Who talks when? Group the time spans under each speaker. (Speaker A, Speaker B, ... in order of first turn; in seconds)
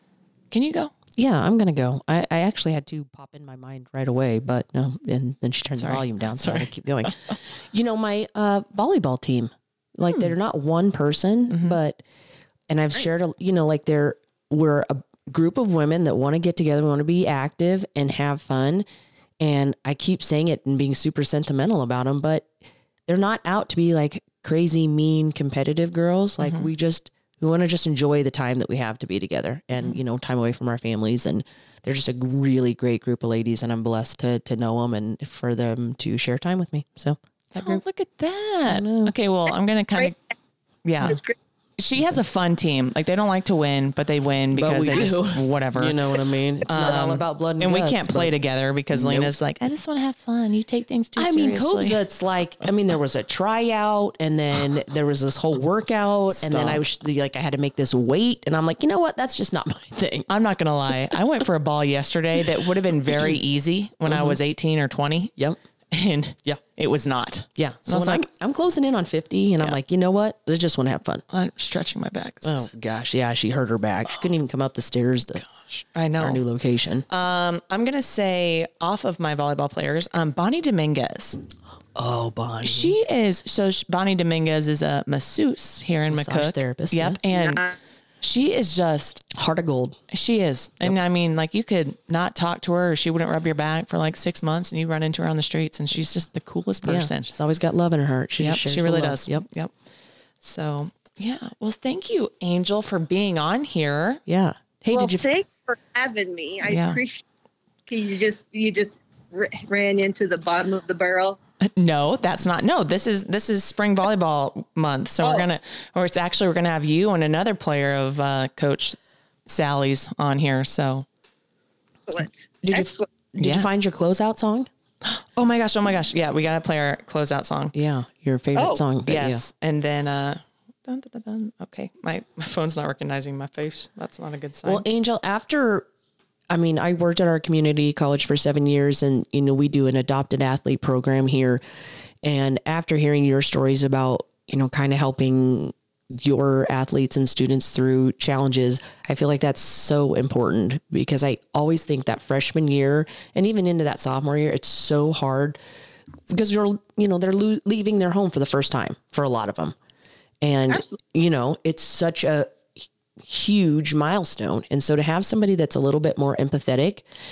Speaker A: 0.5-0.9, 5.8-7.3, 11.5-11.8, 26.4-26.7, 37.5-40.2, 40.8-41.2, 41.8-46.0, 46.7-52.0, 56.3-56.8, 60.3-65.3, 65.9-68.2, 71.3-72.7, 75.7-76.4, 77.1-81.4, 82.6-89.3, 90.1-97.3, 98.4-99.7, 100.4-104.2, 106.6-107.0, 111.6-121.0, 123.4-123.7, 125.0-127.7, 129.0-134.8
Speaker B: 1.1-12.0, 12.7-18.9, 19.4-22.5, 23.1-37.8, 38.6-39.1, 44.5-48.3, 48.9-49.4, 51.2-60.3, 64.1-64.4, 67.5-71.2, 72.4-75.4, 76.2-77.0, 81.9-83.0, 86.1-87.2, 89.3-90.0, 96.8-99.4, 104.2-105.3, 122.6-124.7, 127.7-129.4, 134.6-135.9, 136.5-141.6, 142.2-155.6, 156.3-159.8, 160.4-167.0
Speaker C: 41.0-41.3, 104.9-107.2, 107.9-111.4, 115.2-115.5, 122.1-123.0, 128.5-128.8, 160.7-161.0